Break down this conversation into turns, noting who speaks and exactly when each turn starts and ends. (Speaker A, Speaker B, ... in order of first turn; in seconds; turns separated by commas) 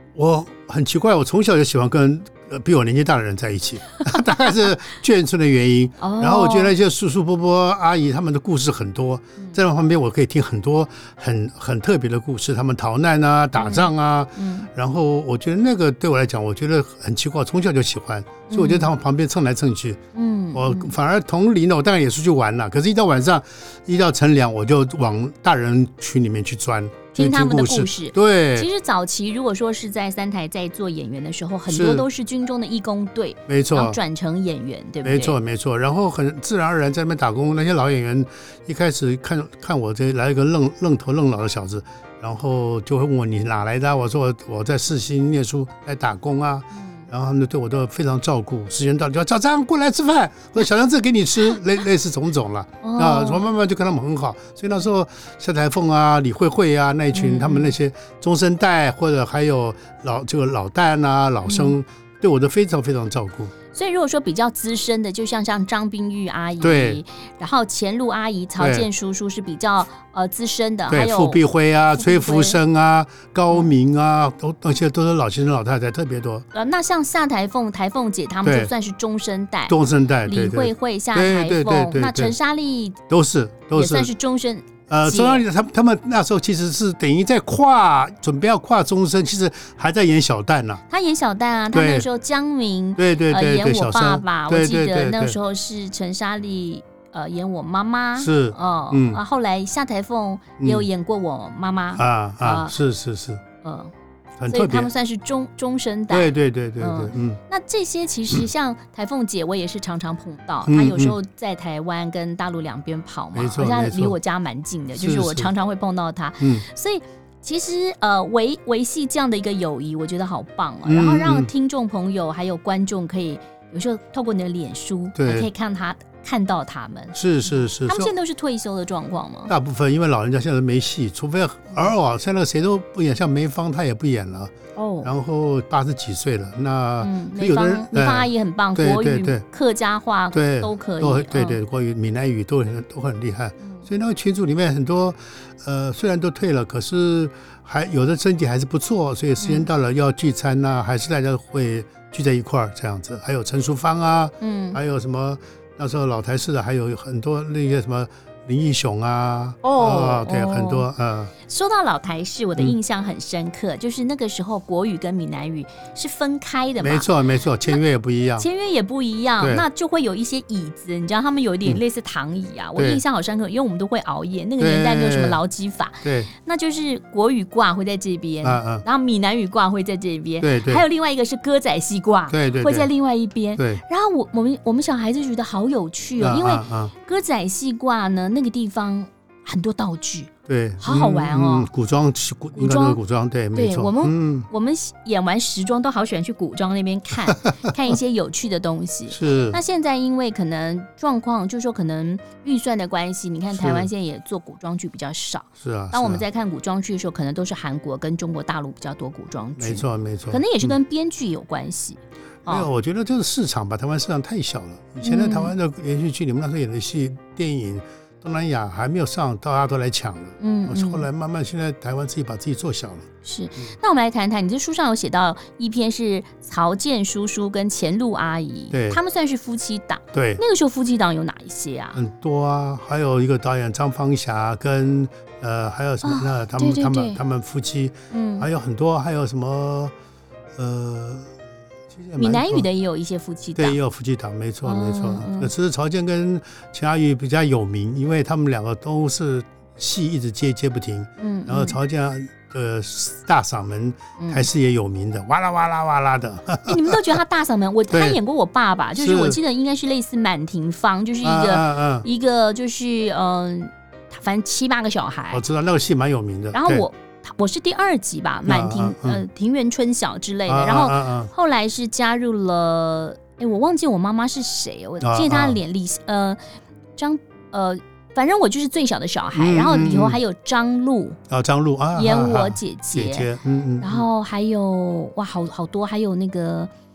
Speaker A: 0.1-20.0, Speaker B: 6.0-6.7, Speaker B: 13.6-14.7, Speaker B: 18.5-18.9, Speaker B: 20.1-20.9, Speaker A: 20.5-28.7, Speaker B: 27.1-35.4, Speaker A: 31.7-32.1, Speaker A: 33.5-34.0, Speaker A: 35.0-63.5, Speaker B: 46.7-47.1, Speaker B: 52.8-53.5, Speaker B: 57.1-57.8, Speaker B: 61.4-61.7, Speaker B: 63.7-72.6, Speaker A: 66.6-67.0, Speaker A: 68.6-68.9, Speaker A: 70.9-76.5, Speaker B: 76.5-79.8, Speaker A: 78.4-78.7, Speaker A: 79.7-82.3, Speaker B: 80.3-83.0, Speaker A: 83.1-84.1, Speaker B: 83.7-85.5, Speaker A: 84.9-90.8, Speaker B: 90.9-102.8, Speaker A: 91.7-92.1, Speaker A: 93.0-95.4, Speaker A: 98.2-99.2, Speaker A: 100.6-100.9, Speaker A: 102.0-103.4, Speaker B: 103.6-103.9, Speaker A: 104.4-104.9, Speaker B: 104.5-129.5, Speaker A: 106.1-107.4, Speaker A: 110.7-111.2, Speaker A: 113.3-114.2, Speaker A: 115.0-115.5, Speaker A: 120.9-121.5, Speaker A: 125.2-125.5, Speaker A: 127.2-128.1, Speaker A: 129.5-139.4, Speaker B: 134.8-135.1, Speaker B: 137.0-141.6, Speaker A: 140.3-161.3, Speaker B: 149.4-149.7, Speaker B: 154.4-154.8, Speaker B: 159.6-160.9, Speaker B: 161.5-167.1, Speaker A: 166.8-168.5, Speaker B: 168.4-191.7, Speaker A: 169.4-169.7, Speaker A: 172.8-173.0, Speaker A: 174.6-175.4, Speaker A: 176.0-176.3, Speaker A: 178.4-178.8, Speaker A: 180.4-180.8, Speaker A: 182.3-182.9, Speaker A: 183.6-183.8, Speaker A: 186.2-186.9, Speaker A: 190.5-194.5, Speaker B: 192.6-193.0, Speaker B: 193.5-212.7, Speaker A: 199.1-199.6, Speaker A: 203.5-203.9, Speaker A: 205.6-206.2, Speaker A: 209.6-210.8, Speaker A: 212.5-223.1, Speaker B: 215.0-215.5, Speaker B: 220.4-221.1, Speaker B: 223.2-232.0, Speaker A: 228.7-229.0, Speaker A: 230.1-230.4, Speaker A: 231.9-239.9, Speaker B: 236.0-237.2, Speaker B: 238.1-238.5, Speaker A: 240.6-241.3, Speaker A: 241.9-242.7, Speaker B: 242.2-243.8, Speaker A: 243.6-257.2, Speaker B: 244.6-245.5, Speaker B: 251.2-251.8, Speaker B: 254.2-254.5, Speaker B: 256.7-265.4, Speaker A: 257.9-258.2, Speaker A: 259.0-259.4, Speaker A: 261.2-262.1, Speaker A: 265.3-266.9, Speaker B: 266.5-276.4, Speaker A: 268.5-269.2, Speaker A: 270.5-271.3, Speaker A: 275.0-275.6, Speaker B: 277.0-281.2, Speaker A: 279.4-280.2, Speaker A: 281.3-284.1, Speaker B: 281.9-283.3, Speaker B: 283.8-286.7